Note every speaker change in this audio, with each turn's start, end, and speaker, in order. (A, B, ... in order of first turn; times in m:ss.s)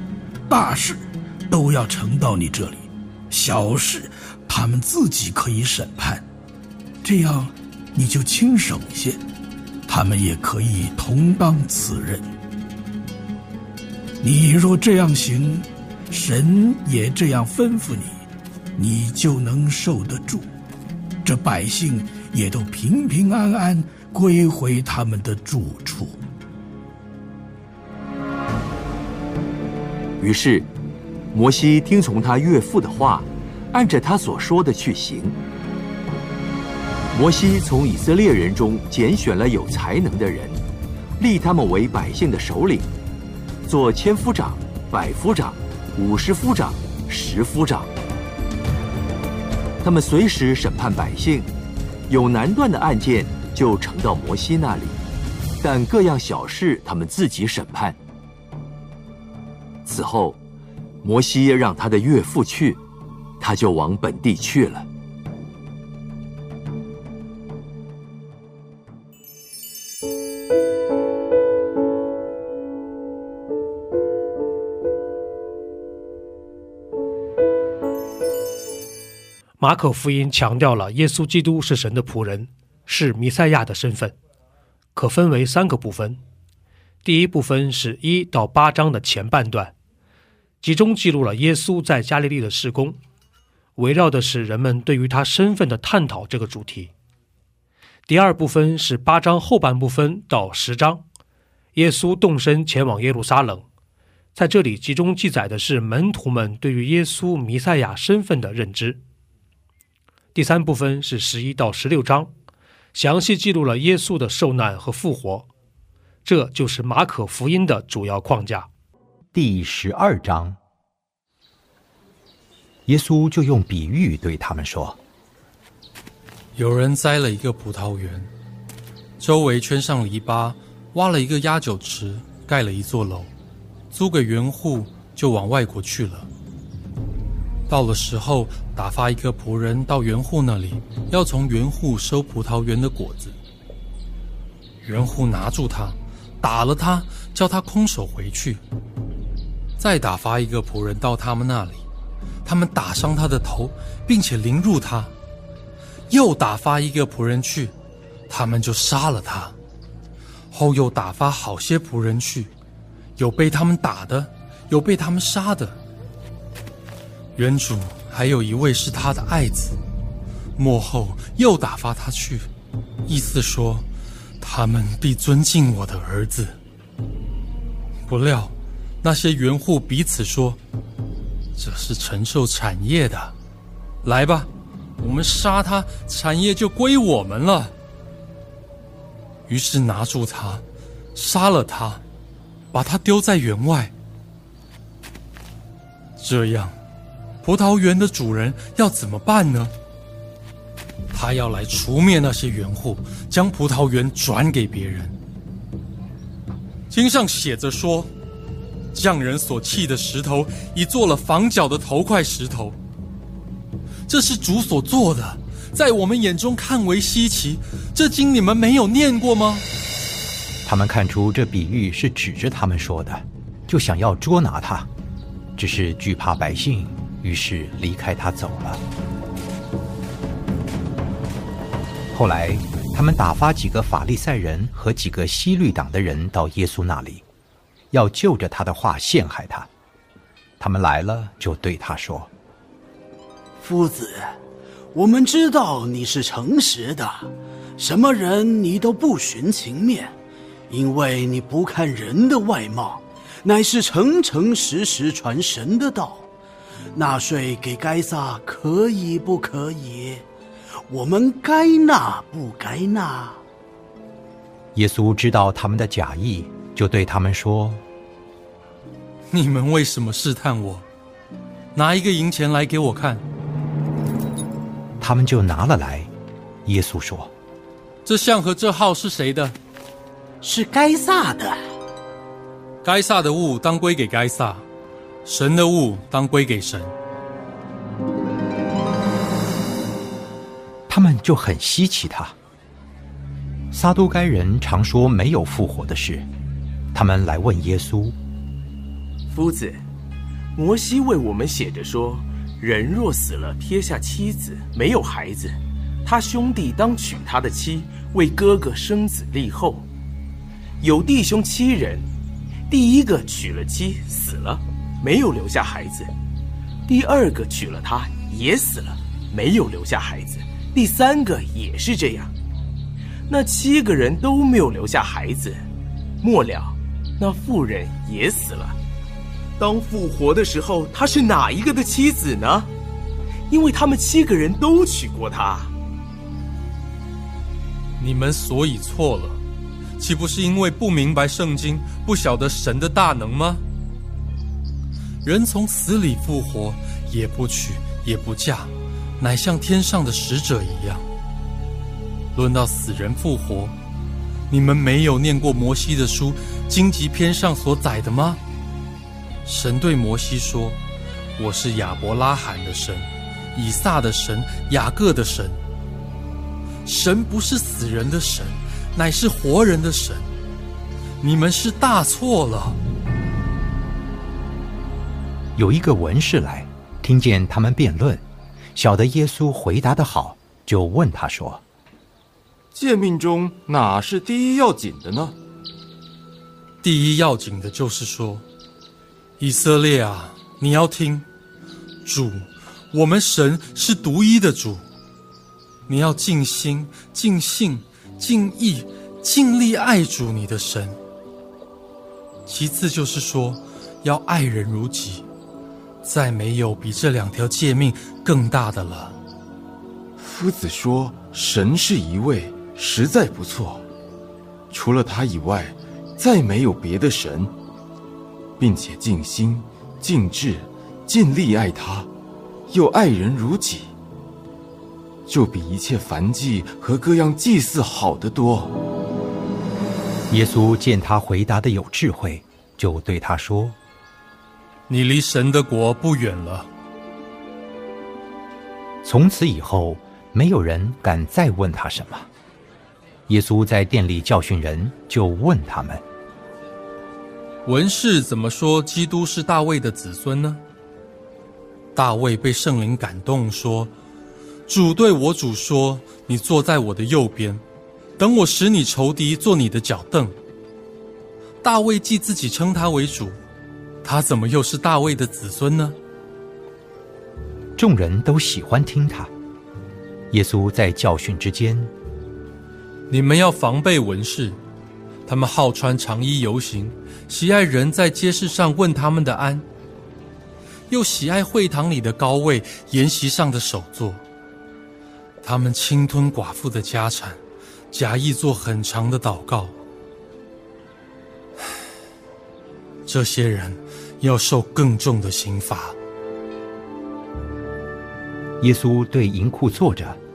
0:00.5-0:06.2 A
0:07.0-0:09.2 A
0:09.9-0:12.3 A
0:14.2-0:18.2 A
0:18.8-0:20.5 A
0:21.2-0:26.2 A
0:30.2-0:30.7 B
0:31.3-0:35.4 B
0:37.1-0:40.6 B
0:41.2-0:42.9 B
0:43.7-0:47.9 B
0:49.8-0:51.5 B
0:52.1-0:55.0 B
0:55.6-0:58.0 B
0:59.8-1:00.4 B
1:01.0-1:02.8 B
1:03.4-1:04.9 B
1:19.6-1:24.2 C
1:25.0-1:26.2 C
1:27.0-1:29.7 C
1:30.6-1:33.0 C
1:33.8-1:36.9 C
1:38.1-1:41.0 C
1:41.8-1:43.7 C
1:44.4-1:49.0 C
1:50.4-1:52.3 C
1:53.0-1:55.5 C
1:56.2-1:58.7 C
1:59.3-2:00.6 D
2:02.9-2:05.0 D
2:06.6-2:08.3 E
2:09.2-2:13.3 E
2:13.9-2:16.3 E
2:17.7-2:23.4 E
2:24.8-2:28.6 E
2:29.8-2:31.8 E
2:32.4-2:35.1 E
2:36.1-2:37.7 E
2:38.3-2:39.5 E
2:40.5-2:42.5 E
2:43.2-2:45.8 E
2:47.4-2:49.8 E
2:50.6-2:52.5 E
2:53.1-2:53.9 E
2:54.4-2:56.6 E
2:58.1-3:00.6 E
3:01.6-3:03.3 E
3:04.0-3:07.7 E
3:09.5-3:10.6 E
3:11.2-3:12.0 E
3:12.7-3:13.9 E
3:16.2-3:16.8 E
3:17.4-3:19.7 E
3:21.1-3:25.2 E
3:26.9-3:28.1 E
3:28.9-3:32.8 E
3:34.1-3:39.6 E
3:40.6-3:44.9 D
3:45.6-3:48.8 D
3:52.1-3:57.2 D
3:57.9-3:59.7 D
4:00.6-4:02.3 D
4:03.6-4:04.3 F
4:04.9-4:10.2 F
4:10.7-4:16.3 F
4:16.9-4:20.2 F
4:20.9-4:23.4 F
4:24.8-4:27.8 D
4:29.3-4:30.8 E
4:31.8-4:33.2 E
4:35.0-4:36.1 D
4:36.7-4:37.3 D
4:38.0-4:39.6 E
4:40.4-4:41.6 F
4:42.8-4:44.6 E
4:45.2-4:46.9 E
4:50.9-4:52.4 D
4:53.7-4:56.3 D
4:56.9-4:58.2 D
4:59.3-4:59.8 G
5:00.6-5:09.9 G
5:10.8-5:12.1 G
5:12.7-5:16.1 G
5:16.9-5:22.3 G
5:23.3-5:25.6 G
5:26.2-5:28.8 G
5:29.6-5:32.7 G
5:33.5-5:35.7 G
5:38.0-5:39.4 E
5:40.0-5:43.6 E
5:45.2-5:51.1 E
5:52.3-5:53.8 E
5:54.5-5:58.4 E
5:59.4-6:00.8 E
6:01.4-6:05.6 E
6:06.8-6:10.3 E
6:11.2-6:12.8 E
6:15.6-6:18.2 D
6:18.8-6:21.6 D
6:22.7-6:25.4 H
6:26.8-6:28.4 E
6:29.4-6:31.3 E
6:32.0-6:34.8 E
6:35.9-6:41.0 E
6:42.5-6:45.2 E
6:46.0-6:49.2 E
6:50.2-6:53.8 H
6:54.7-6:57.5 H
6:58.6-7:02.1 H
7:02.7-7:03.9 H
7:05.3-7:08.8 H
7:10.3-7:13.8 D
7:14.9-7:16.7 E
7:19.0-7:22.3 D
7:23.3-7:26.0 D
7:27.6-7:30.6 E
7:32.0-7:33.9 E
7:34.7-7:37.6 E
7:38.2-7:40.4 E
7:41.6-7:43.4 E
7:44.0-7:46.0 E
7:47.8-7:49.3 D
7:50.3-7:51.9 D
7:53.1-7:54.6 E
7:55.3-7:59.6 E
8:00.9-8:04.2 E
8:05.4-8:07.4 E
8:07.9-8:09.7 E
8:13.1-8:16.0 E
8:18.6-8:20.2 D